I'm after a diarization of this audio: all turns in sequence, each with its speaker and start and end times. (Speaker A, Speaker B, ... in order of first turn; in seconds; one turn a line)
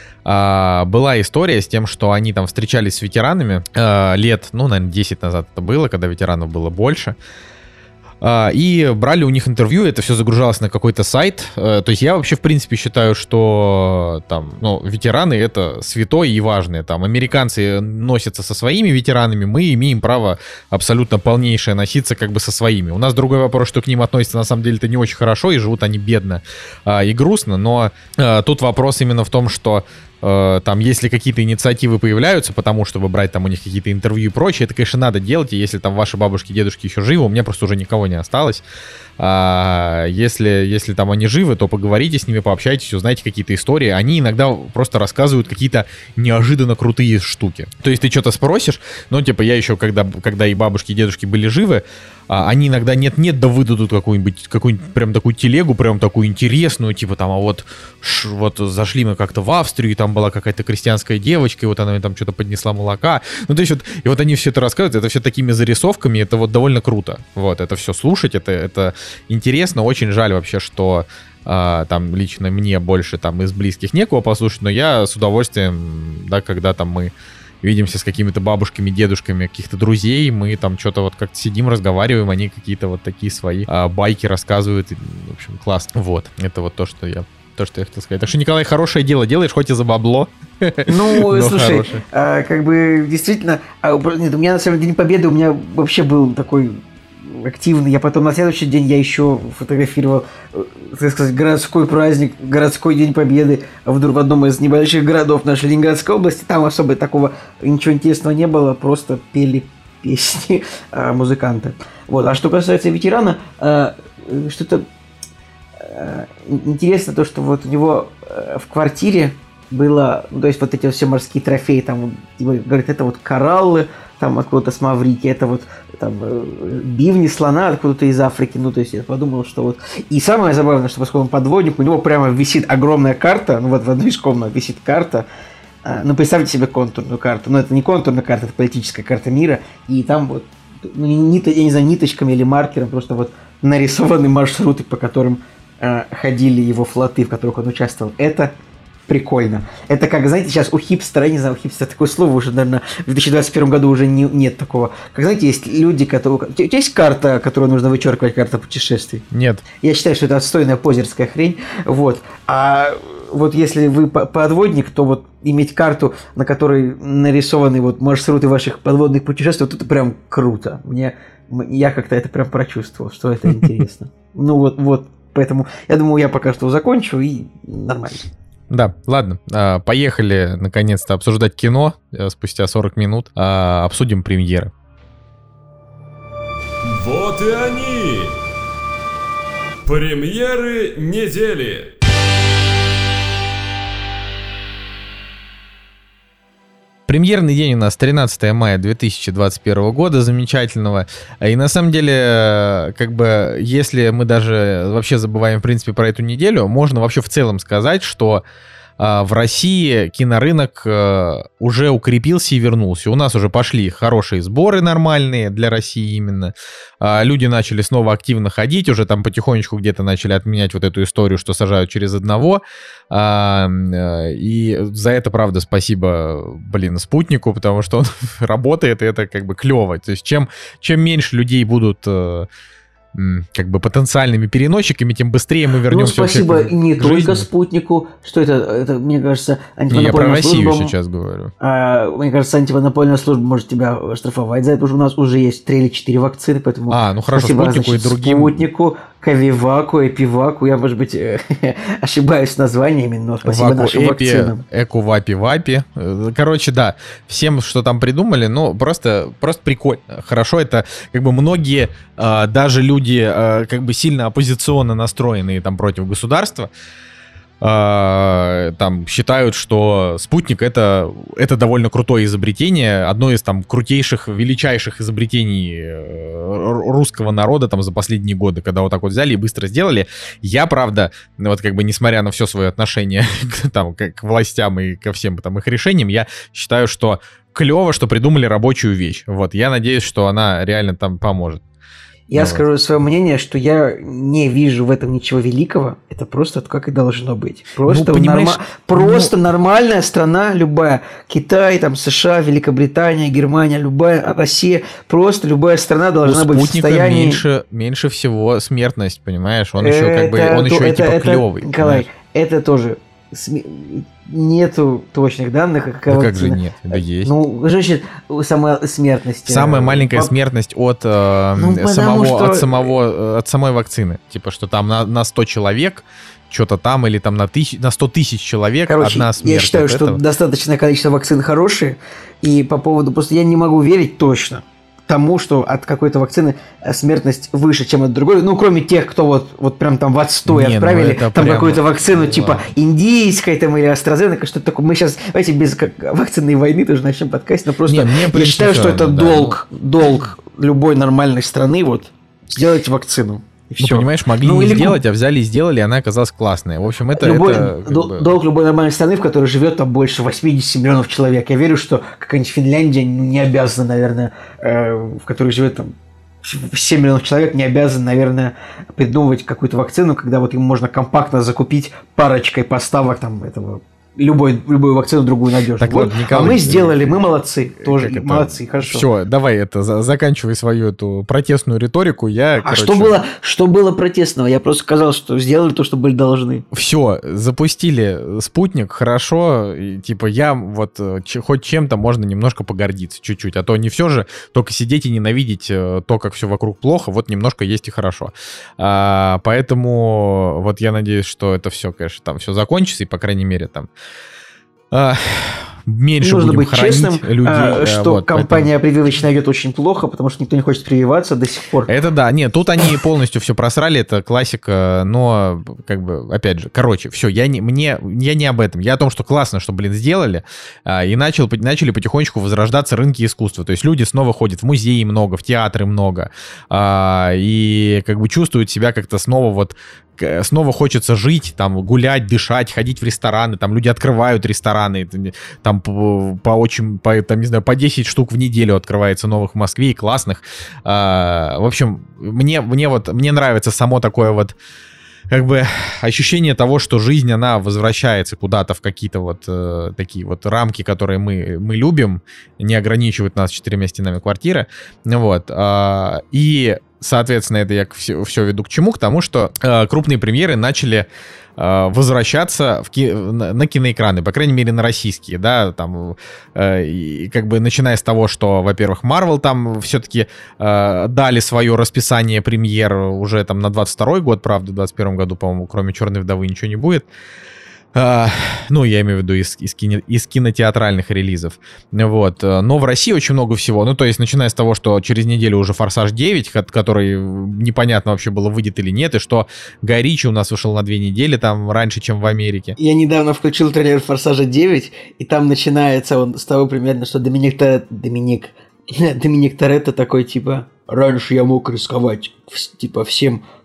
Speaker A: 0.2-7.2
Speaker A: 8.2-38.6
Speaker A: 39.2-92.0
Speaker B: 90.8-114.8
Speaker B: 115.8-135.2
Speaker B: 135.8-148.5
Speaker B: 149.1-159.2
Speaker A: 159.3-159.6
Speaker B: 159.8-178.2
Speaker A: 178.7-184.7
Speaker C: 186.8-188.3
Speaker C: 189.8-191.9
Speaker A: 197.1-208.4
Speaker A: 209.0-232.5
Speaker A: 233.1-237.4
Speaker B: 235.9-240.9
Speaker A: 239.9-241.5
Speaker B: 241.6-254.6
Speaker A: 246.9-248.6
Speaker A: 253.4-266.7
Speaker A: 267.6-291.6
Speaker B: 292.3-307.4
Speaker A: 292.4-292.6
Speaker A: 297.9-299.3
Speaker A: 306.2-312.1
Speaker B: 309.8-320.3
Speaker A: 316.1-317.3
Speaker A: 319.4-330.2
Speaker B: 321.6-322.9
Speaker B: 328.9-355.0
Speaker A: 340.4-342.7
Speaker A: 347.9-349.6
Speaker A: 353.8-358.3
Speaker B: 357.2-379.1
Speaker A: 375.8-377.2
Speaker A: 377.8-383.2
Speaker B: 382.6-386.6
Speaker A: 386.7-403.9
Speaker A: 404.9-408.7
Speaker B: 406.2-411.9
Speaker A: 411.9-444.6
Speaker A: 445.3-477.1
Speaker A: 477.9-492.8
Speaker B: 492.8-503.4